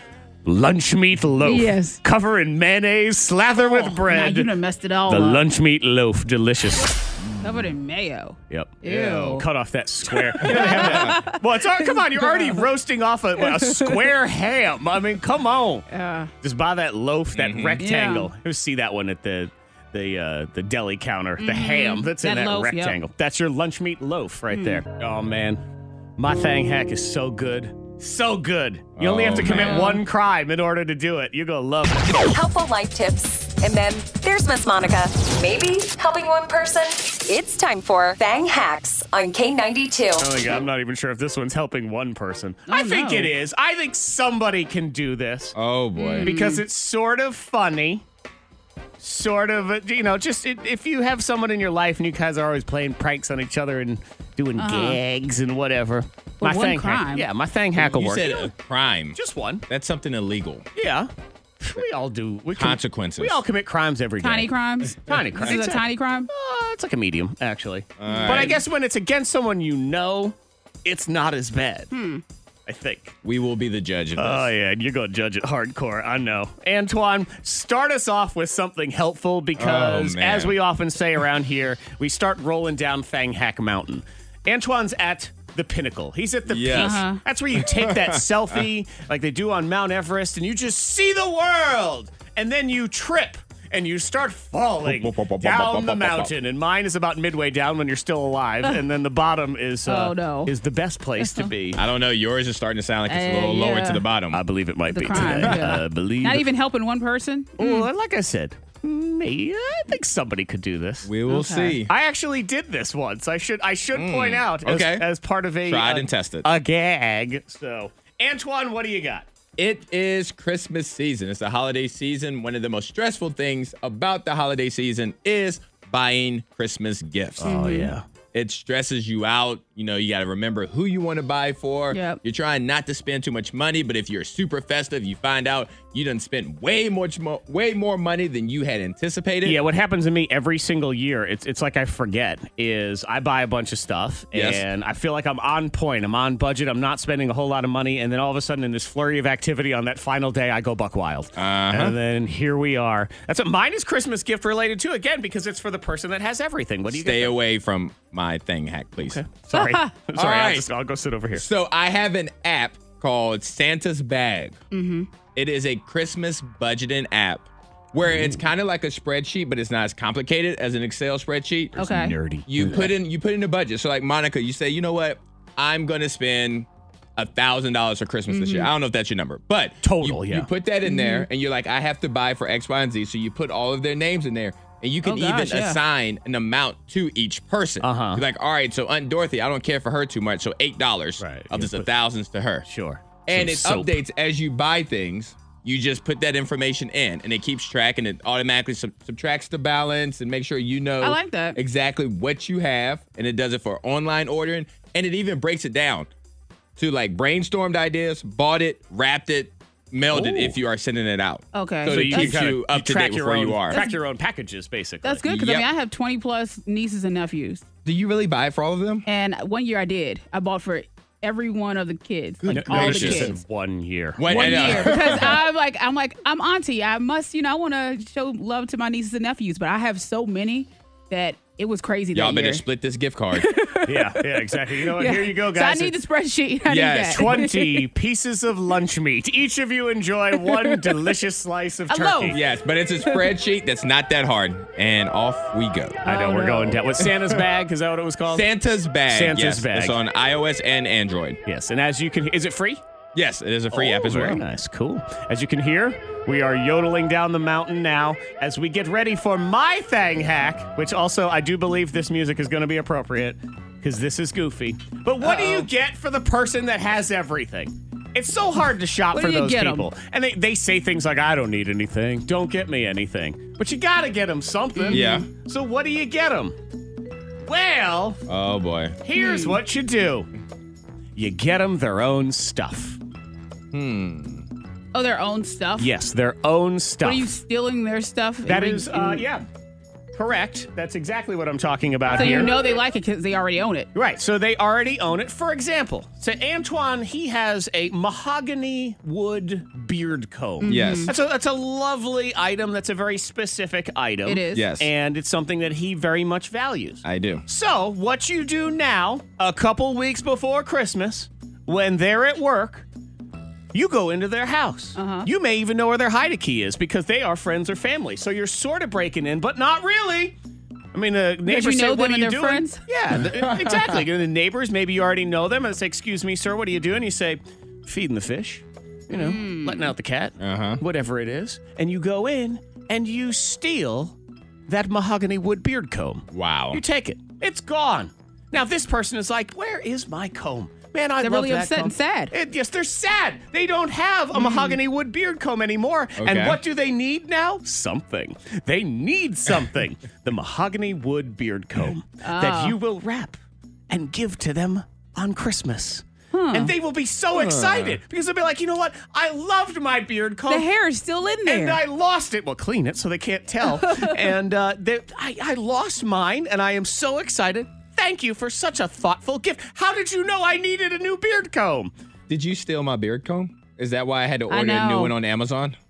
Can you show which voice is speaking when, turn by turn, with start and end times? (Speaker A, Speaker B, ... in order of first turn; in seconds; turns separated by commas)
Speaker A: 0.4-4.5, Speaker B: 1.4-2.0, Speaker B: 3.6-5.4, Speaker A: 5.1-7.7, Speaker B: 7.4-9.4, Speaker A: 8.5-15.9, Speaker B: 10.1-12.7, Speaker C: 10.4-11.2, Speaker B: 13.4-14.1, Speaker B: 15.9-16.3, Speaker A: 16.4-25.6, Speaker C: 17.3-17.8, Speaker B: 17.8-18.3, Speaker B: 21.4-23.0, Speaker B: 24.5-24.8, Speaker A: 26.2-32.2, Speaker C: 29.0-30.0, Speaker B: 29.4-30.0, Speaker D: 32.1-40.4, Speaker A: 40.2-45.5, Speaker B: 42.7-43.3, Speaker C: 45.5-46.3, Speaker B: 46.0-46.6, Speaker A: 46.2-48.0, Speaker A: 49.0-58.5, Speaker B: 54.6-55.0, Speaker B: 56.4-57.3, Speaker C: 57.7-60.6, Speaker A: 59.1-59.6, Speaker A: 60.8-71.9, Speaker C: 62.5-63.4, Speaker B: 64.2-66.3, Speaker C: 68.0-68.6, Speaker B: 68.1-68.6, Speaker B: 71.9-72.2, Speaker A: 72.7-73.2, Speaker C: 73.2-74.5, Speaker A: 74.2-101.8, Speaker C: 79.5-80.6, Speaker C: 86.5-88.6, Speaker B: 86.7-87.2, Speaker C: 94.8-96.3, Speaker B: 99.8-100.5, Speaker B: 101.2-101.5, Speaker C: 101.7-104.4, Speaker B: 103.1-104.0, Speaker A: 104.3-106.5, Speaker B: 104.9-107.9, Speaker C: 105.4-105.7, Speaker A: 107.6-111.1, Speaker C: 111.0-111.9, Speaker B: 111.3-111.8, Speaker A: 111.9-119.2, Speaker C: 113.9-115.1, Speaker C: 115.6-116.5, Speaker C: 119.6-127.6, Speaker A: 127.4-128.0, Speaker B: 127.4-127.9, Speaker C: 128.3-139.6, Speaker B: 131.9-132.2, Speaker A: 139.4-157.4, Speaker C: 144.3-144.6, Speaker C: 151.3-152.0, Speaker C: 156.9-159.2, Speaker A: 159.0-161.4, Speaker B: 159.5-159.9, Speaker C: 160.1-160.7, Speaker C: 161.3-164.6, Speaker B: 164.7-165.1, Speaker C: 165.3-171.8, Speaker A: 168.0-168.4, Speaker A: 171.7-172.9, Speaker B: 171.8-172.1, Speaker C: 172.4-192.7, Speaker B: 178.3-178.7, Speaker A: 179.8-180.5, Speaker B: 180.8-181.3, Speaker B: 185.0-185.8, Speaker A: 187.8-188.2, Speaker A: 191.2-191.9, Speaker A: 192.6-194.0, Speaker C: 193.2-206.1, Speaker B: 201.0-201.6, Speaker C: 206.8-213.8, Speaker A: 210.1-210.6, Speaker B: 211.5-212.4, Speaker A: 211.9-215.2, Speaker B: 213.7-214.0, Speaker B: 215.0-217.6, Speaker C: 215.2-215.7, Speaker C: 217.8-219.1, Speaker B: 219.1-223.3, Speaker C: 222.4-223.3, Speaker A: 222.5-225.1, Speaker C: 224.2-225.4, Speaker B: 224.3-232.6, Speaker C: 232.1-233.5, Speaker B: 233.3-237.9, Speaker A: 233.8-235.9, Speaker C: 236.7-237.4, Speaker A: 237.1-242.4, Speaker B: 240.5-241.0, Speaker B: 241.9-242.4, Speaker C: 242.3-246.0, Speaker B: 243.0-243.3, Speaker B: 246.1-246.8, Speaker A: 246.1-248.5, Speaker C: 247.0-247.3, Speaker C: 248.3-251.4, Speaker A: 249.1-250.0, Speaker A: 251.4-252.8, Speaker C: 253.1-254.4, Speaker A: 253.7-276.6, Speaker B: 269.1-269.9, Speaker B: 274.7-275.2, Speaker C: 274.9-275.3, Speaker A: 277.4-278.2, Speaker C: 278.3-279.0, Speaker A: 279.0-280.3, Speaker B: 279.1-279.6, Speaker A: 281.1-283.0, Speaker C: 283.7-284.4, Speaker B: 284.9-285.9, Speaker A: 285.8-287.3, Speaker B: 287.0-289.2, Speaker A: 288.5-289.4, Speaker A: 290.1-292.5, Speaker B: 292.1-293.9, Speaker A: 293.9-312.9, Speaker B: 300.6-301.1, Speaker C: 300.6-301.1, Speaker B: 304.2-304.7, Speaker C: 304.5-304.9, Speaker C: 307.0-307.4, Speaker A: 313.7-320.4, Speaker B: 314.9-315.3, Speaker A: 320.9-334.1, Speaker B: 321.4-322.8, Speaker C: 323.1-324.0, Speaker B: 329.1-329.9, Speaker C: 330.4-330.8, Speaker A: 334.7-353.4, Speaker C: 336.3-336.8, Speaker B: 341.2-342.3, Speaker B: 344.3-344.8, Speaker C: 346.2-346.6, Speaker B: 352.2-352.8, Speaker A: 353.9-360.7, Speaker B: 356.3-356.7, Speaker C: 357.3-358.0, Speaker B: 360.5-361.8, Speaker A: 361.4-371.9, Speaker B: 363.6-364.3, Speaker C: 372.3-375.8, Speaker B: 374.5-375.1